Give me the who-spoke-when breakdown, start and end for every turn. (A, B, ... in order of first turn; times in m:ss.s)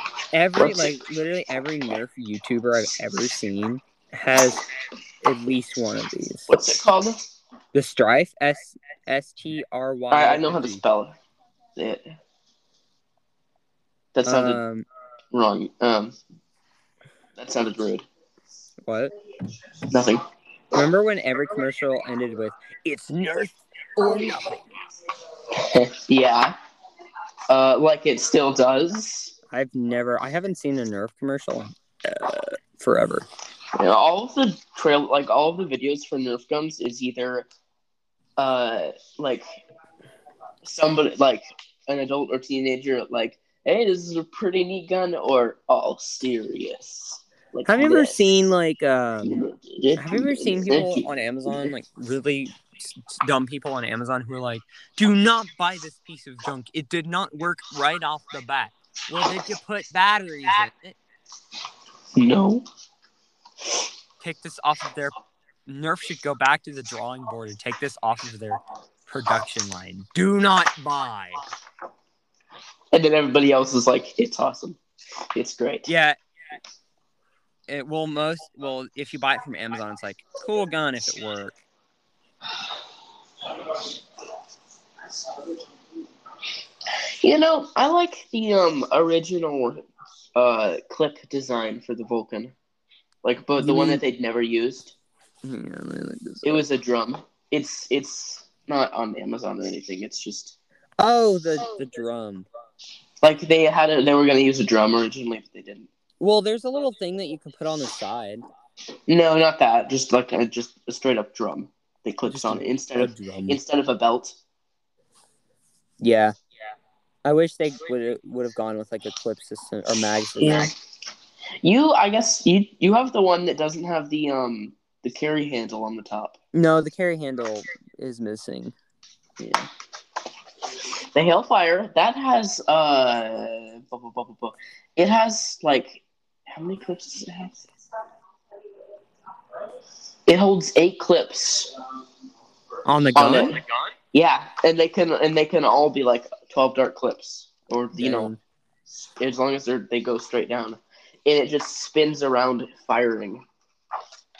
0:00.3-0:04.6 A
0:00.6-0:00.9 B
0:05.2-0:06.5 A
0:06.5-0:07.2 B
0:07.7-0:10.8 A
0:10.1-0:11.1 B
0:11.8-0:12.1 B
0:14.1-0:14.6 B
0:14.2-0:14.8 A
0:15.3-0:16.2 B
0:17.4-0:18.1 B
0:18.8-0:19.1 A
0:19.9-0:20.2 B
0:20.7-0:24.6 A
0:25.5-0:26.6 B
0:27.5-0:29.3 B
0:29.5-0:33.3 A
0:33.8-0:37.5 B
0:38.4-0:39.4 B
0:40.6-0:48.2 B
0:47.6-0:49.4 A
0:49.2-0:51.7 B
0:50.0-1:01.0 A
1:02.2-1:02.6 B
1:04.2-1:05.1 A
1:05.6-1:11.4 A
1:12.9-1:14.8 B
1:15.3-1:15.9 B
1:15.9-1:16.2 A
1:17.7-1:21.6 A
1:27.2-1:29.8 B
1:30.4-1:32.5 B
1:33.2-1:35.0 B
1:33.6-1:34.0 A
1:35.4-1:36.6 A
1:36.4-1:40.6 B
1:41.0-1:42.5 A
1:43.2-1:45.9 B
1:46.2-1:48.4 A
1:49.1-1:54.4 B
1:52.3-1:53.6 A
1:56.0-1:56.3 A
1:57.2-2:00.7 A
2:00.4-2:00.7 B
2:01.6-2:06.4 B
2:06.5-2:08.7 A
2:09.4-2:09.6 B
2:11.1-2:17.7 B
2:20.3-2:21.7 B
2:22.8-2:23.6 A
2:23.1-2:23.6 B
2:24.1-2:28.3 B
2:28.0-2:28.4 A
2:29.2-2:33.4 B